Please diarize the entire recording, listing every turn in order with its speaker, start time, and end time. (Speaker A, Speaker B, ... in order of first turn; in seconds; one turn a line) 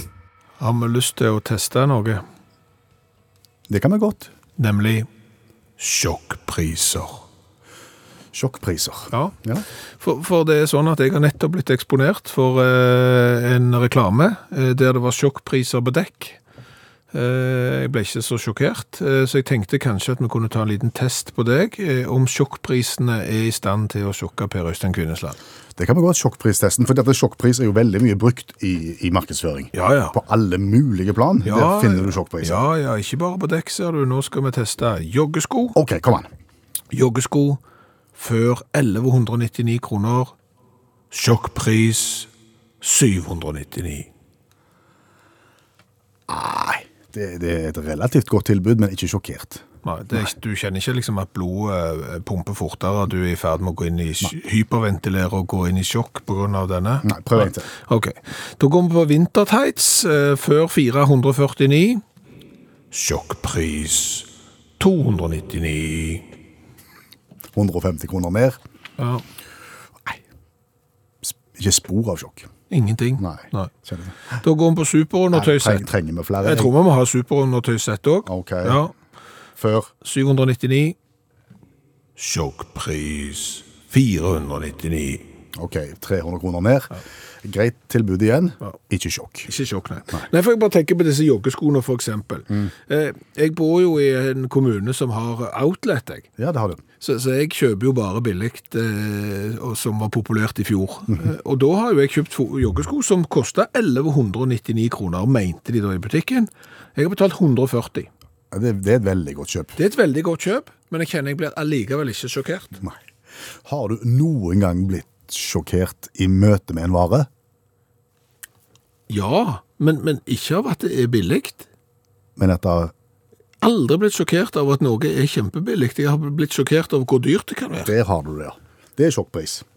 Speaker A: 0.6-2.2
Speaker B: 3.7-4.3
Speaker A: 4.6-5.1
Speaker A: 5.8-7.2
Speaker B: 8.3-9.7
Speaker A: 9.1-9.3
Speaker A: 10.0-16.4
Speaker A: 17.1-25.4
Speaker B: 25.8-32.6
Speaker A: 29.7-30.1
Speaker A: 31.4-35.8
Speaker B: 35.7-36.3
Speaker A: 36.9-37.6
Speaker A: 38.1-40.3
Speaker A: 41.1-42.3
Speaker A: 42.8-44.1
Speaker B: 46.3-50.3
Speaker A: 49.8-62.0
Speaker B: 57.0-57.7
Speaker A: 62.9-64.3
Speaker A: 64.8-66.3
Speaker B: 67.5-68.6
Speaker A: 69.0-69.2
Speaker B: 71.2-72.5
Speaker A: 72.7-73.7
Speaker B: 73.2-74.4
Speaker A: 74.4-75.9
Speaker B: 75.3-76.7
Speaker A: 76.4-78.9
Speaker B: 78.2-78.8
Speaker B: 79.6-79.9
Speaker A: 80.0-81.0
Speaker A: 82.2-85.2
Speaker B: 85.5-89.5
Speaker A: 89.5-96.3
Speaker B: 96.4-96.8
Speaker A: 97.0-108.1
Speaker B: 108.5-109.8
Speaker A: 109.8-112.7
Speaker B: 113.6-117.3
Speaker A: 119.1-121.7
Speaker B: 122.4-122.9
Speaker A: 123.6-127.9
Speaker B: 127.8-129.6